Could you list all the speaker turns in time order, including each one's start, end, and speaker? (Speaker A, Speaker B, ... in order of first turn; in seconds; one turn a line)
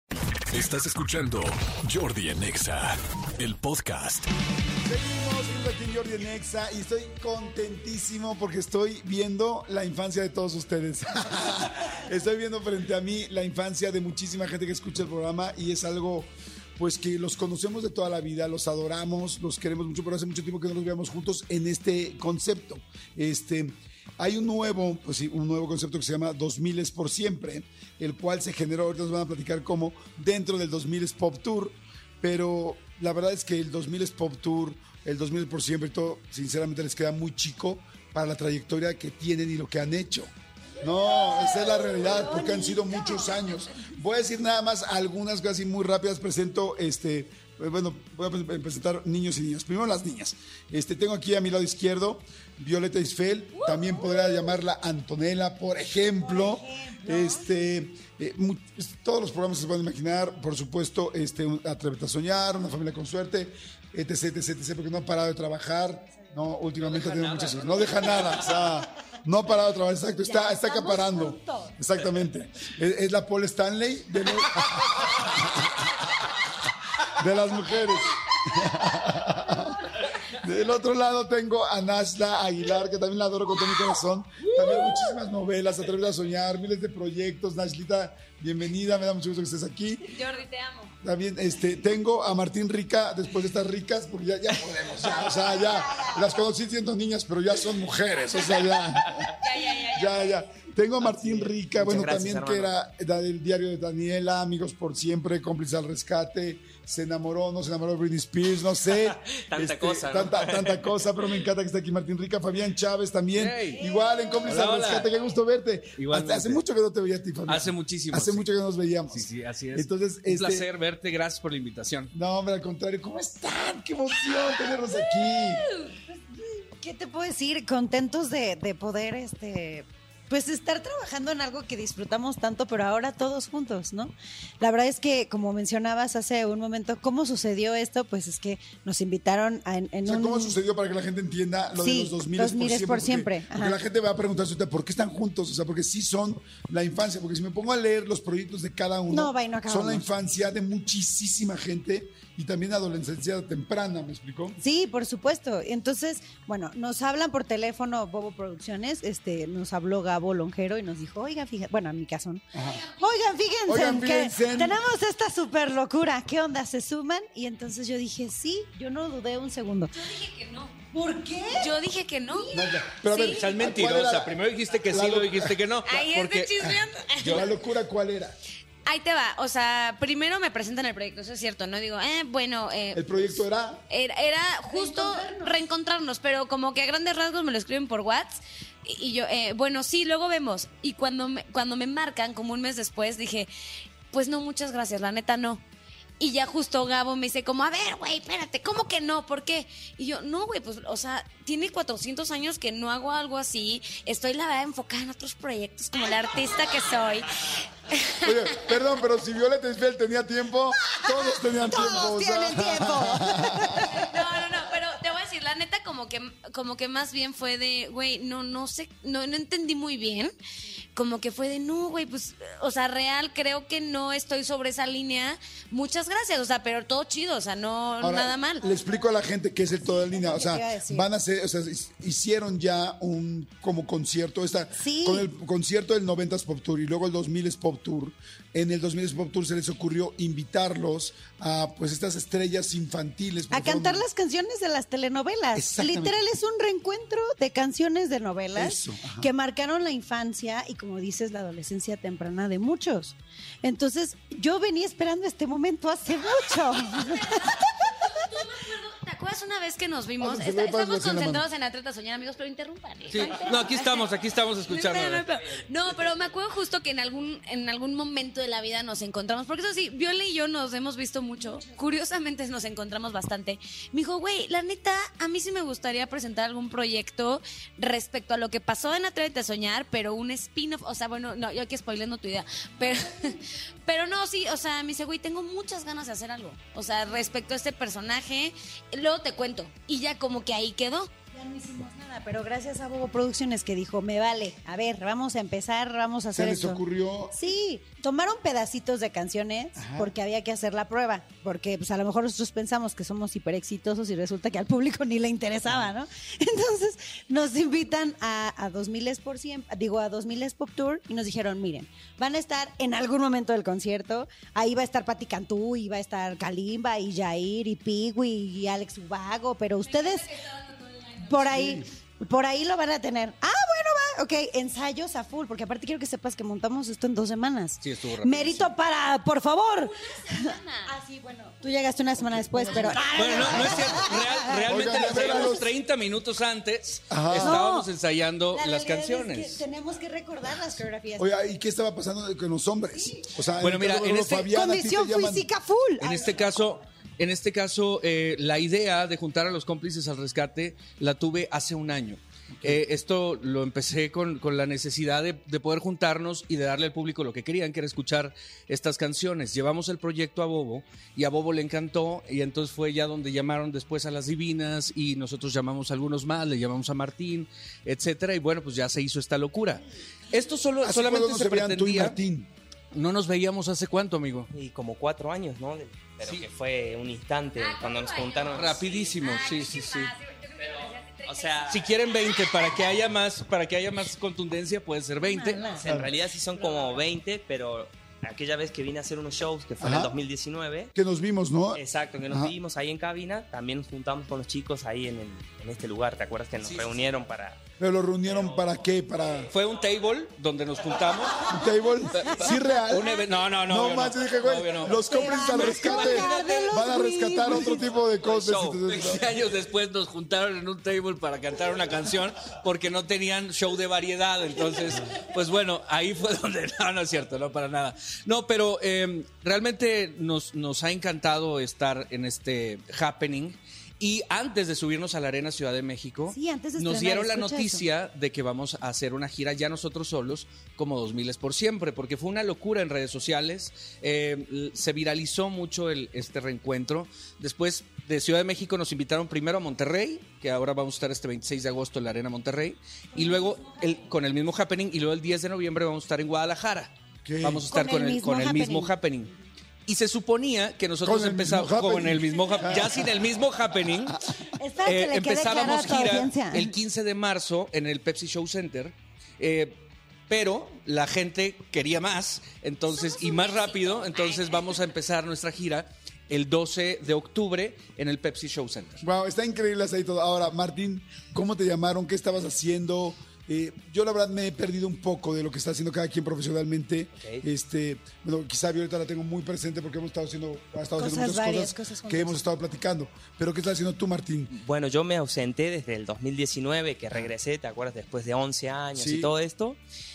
Speaker A: 0.5-4.3
Speaker B: 4.8-75.9
Speaker C: 40.8-43.5
Speaker D: 53.6-54.1
Speaker C: 56.2-57.4
Speaker E: 66.8-68.6
Speaker C: 70.2-71.8
Speaker B: 77.1-90.2
Speaker D: 90.1-90.9
Speaker B: 91.0-120.7
Speaker C: 95.1-96.3
Speaker D: 99.4-100.5
Speaker F: 101.0-102.7
Speaker F: 109.1-111.1
Speaker E: 113.3-113.8
Speaker C: 113.8-114.7
Speaker E: 114.5-115.1
Speaker E: 116.0-116.6
Speaker E: 117.5-118.5
Speaker E: 119.1-122.1
Speaker B: 122.1-125.7
Speaker D: 125.3-126.0
Speaker C: 126.8-140.6
Speaker B: 140.1-154.6
Speaker C: 141.8-143.8
Speaker C: 149.1-150.1
Speaker C: 154.6-162.5
Speaker B: 162.5-162.8
Speaker D: 162.7-163.2
Speaker C: 163.0-169.9
Speaker B: 163.7-164.8
Speaker D: 169.9-170.8
Speaker C: 170.9-171.7
Speaker D: 171.6-172.5
Speaker C: 172.4-172.7
Speaker B: 172.5-175.6
Speaker D: 173.0-173.4
Speaker E: 173.3-176.7
Speaker D: 175.8-177.5
Speaker B: 176.6-178.4
Speaker E: 177.2-177.5
Speaker D: 178.8-183.3
Speaker B: 182.9-183.8
Speaker D: 183.9-193.5
Speaker C: 184.7-185.6
Speaker D: 194.1-195.6
Speaker D: 196.2-208.7
Speaker B: 208.2-213.9
Speaker C: 210.9-214.2
Speaker D: 213.8-220.3
Speaker D: 221.0-228.6
Speaker B: 228.0-244.1
Speaker C: 228.7-228.9
Speaker C: 229.9-231.1
Speaker C: 234.8-235.3
Speaker C: 243.5-257.9
Speaker B: 245.6-246.2
Speaker B: 248.6-249.3
Speaker D: 257.2-257.6
Speaker D: 258.1-264.1
Speaker B: 260.2-261.4
Speaker E: 263.1-265.3
Speaker D: 264.7-291.1
Speaker C: 271.4-271.7
Speaker C: 282.8-283.4
Speaker C: 291.3-320.3
Speaker B: 296.3-297.4
Speaker B: 299.8-300.1
Speaker D: 319.8-321.5
Speaker C: 321.2-335.6
Speaker B: 321.5-321.9
Speaker E: 327.8-328.7
Speaker D: 330.2-330.9
Speaker B: 332.2-334.1
Speaker E: 333.0-339.6
Speaker B: 334.6-335.7
Speaker B: 337.1-337.6
Speaker C: 337.4-337.9
Speaker C: 338.5-341.3
Speaker B: 341.2-345.5
Speaker E: 343.6-344.5
Speaker C: 344.4-346.6
Speaker E: 346.0-372.2
Speaker B: 352.5-352.8
Speaker B: 370.8-372.5
Speaker E: 372.9-374.5
Speaker F: 374.5-378.8
Speaker E: 376.2-376.5
Speaker D: 377.6-382.3
Speaker E: 378.6-380.1
Speaker F: 381.3-381.8
Speaker E: 381.7-385.6
Speaker C: 385.2-385.9
Speaker F: 385.7-390.9
Speaker B: 385.9-386.1
Speaker C: 386.6-387.0
Speaker B: 389.8-390.1
Speaker B: 390.9-392.6
Speaker F: 391.7-397.6
Speaker E: 396.6-397.1
Speaker B: 397.8-399.5
Speaker E: 398.3-398.6
Speaker E: 399.5-401.5
Speaker B: 401.5-409.3
Speaker E: 402.1-406.8
Speaker C: 405.1-407.9
Speaker F: 408.3-408.8
Speaker E: 408.9-446.9
Speaker C: 426.3-427.9
Speaker C: 443.1-444.1
Speaker B: 447.2-447.7
Speaker E: 447.4-449.3
Speaker C: 447.7-448.9
Speaker E: 449.9-454.2
Speaker B: 451.0-453.1
Speaker C: 454.6-456.7
Speaker E: 454.9-469.0
Speaker D: 462.9-464.8
Speaker B: 469.0-484.6
Speaker F: 477.2-477.4
Speaker C: 481.0-482.4
Speaker F: 484.5-489.8
Speaker B: 488.9-489.3